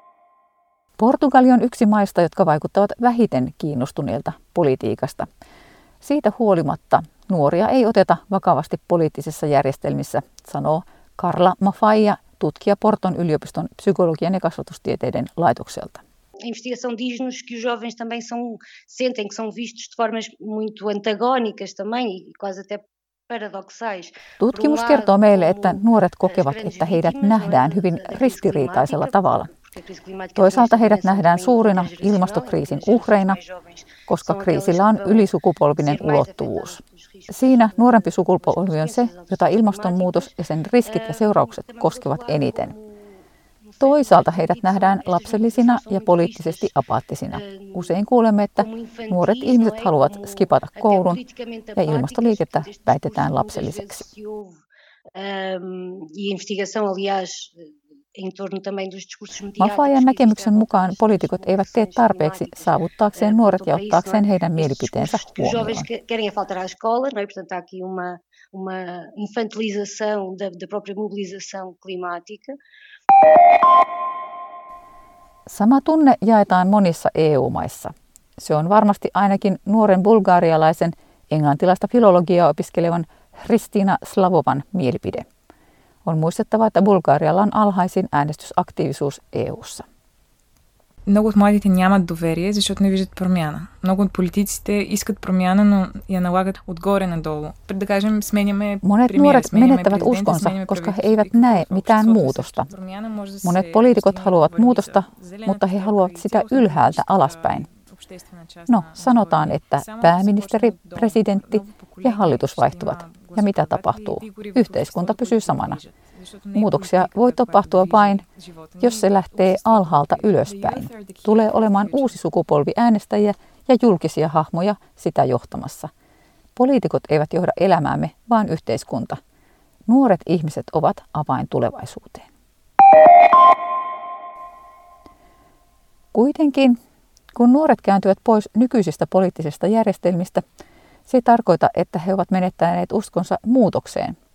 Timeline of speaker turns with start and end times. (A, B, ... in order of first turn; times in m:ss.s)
0:01.0-0:05.3 A
0:06.0-0:16.0 A
0:16.4-0:46.7 B
0:24.4-0:29.5 A
0:30.4-0:33.4 A
0:34.1-0:42.7 A
0:43.8-0:51.2 A
0:47.3-0:48.0 B
0:48.6-0:54.6 B
0:51.8-0:54.0 A
0:55.2-1:12.6 B
0:59.6-1:05.9 A
1:15.5-1:25.3 A
1:26.1-1:29.9 A
1:31.1-2:02.3 C
1:38.8-1:42.7 A
1:43.4-1:47.7 A
1:48.7-1:55.8 A
1:56.5-1:58.2 A
1:58.8-2:05.9 A
2:06.6-2:09.2 A
2:09.9-2:12.3 A
2:16.1-2:16.8 A
2:17.4-2:20.4 A
2:21.1-2:24.2 A